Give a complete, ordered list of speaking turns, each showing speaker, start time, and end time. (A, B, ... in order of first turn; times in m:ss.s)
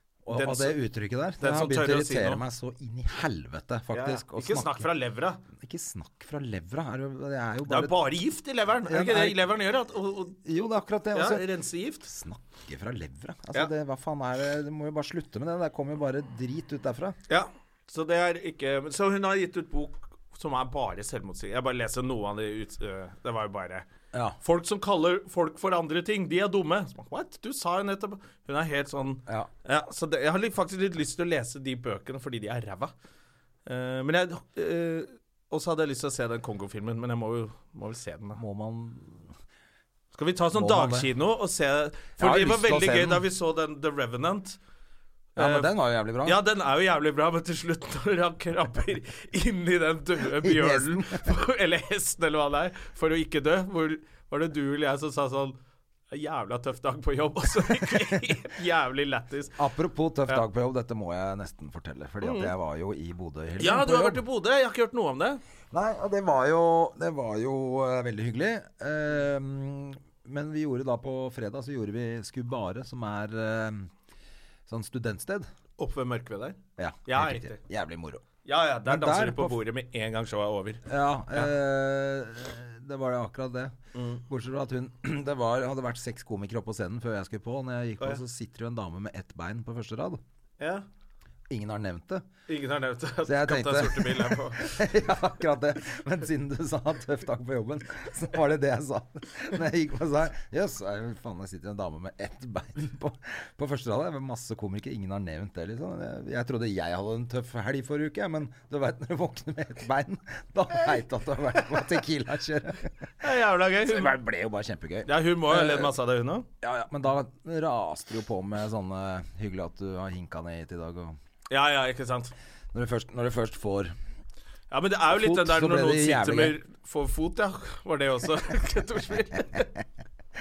0:00.3-0:04.9 A
0:00.3-0:00.8 B
0:01.4-0:02.4 B
0:03.9-0:05.4 B
0:05.6-0:08.0 A
0:07.7-0:10.4 B
0:08.8-0:09.5 A
0:10.4-0:11.5 A
0:11.1-0:12.1 B
0:12.0-0:17.2 A
0:17.3-0:23.9 B
0:24.4-0:32.9 B
0:33.7-0:38.4 B
0:38.4-0:39.3 A
0:40.1-0:44.6 B
0:40.5-0:41.1 A
0:42.2-0:43.2 A
0:45.4-0:45.7 B
0:45.4-0:46.4 A
0:46.2-0:55.6 B
0:50.3-0:51.3 A
0:56.1-0:59.6 B
0:57.8-0:58.2 A
0:59.6-1:04.2 A
1:02.2-1:02.5 B
1:03.6-1:05.4 B
1:05.7-1:13.9 A
1:14.7-1:15.5 A
1:15.8-1:17.6 B
1:16.8-1:18.2 A
1:18.4-1:20.8 B
1:18.9-1:19.6 A
1:20.9-1:23.8 A
1:23.9-1:24.2 B
1:24.3-1:30.2 A
1:30.6-1:30.8 B
1:31.5-1:32.2 A
1:32.5-1:34.9 B
1:33.3-1:52.9 A
1:53.2-1:54.1 B
1:53.8-1:55.9 A
1:55.1-1:56.5 B
1:56.6-2:01.2 A
2:01.5-2:02.3 B
2:02.7-2:03.9 A
2:04.7-2:09.7 B
2:05.1-2:06.6 A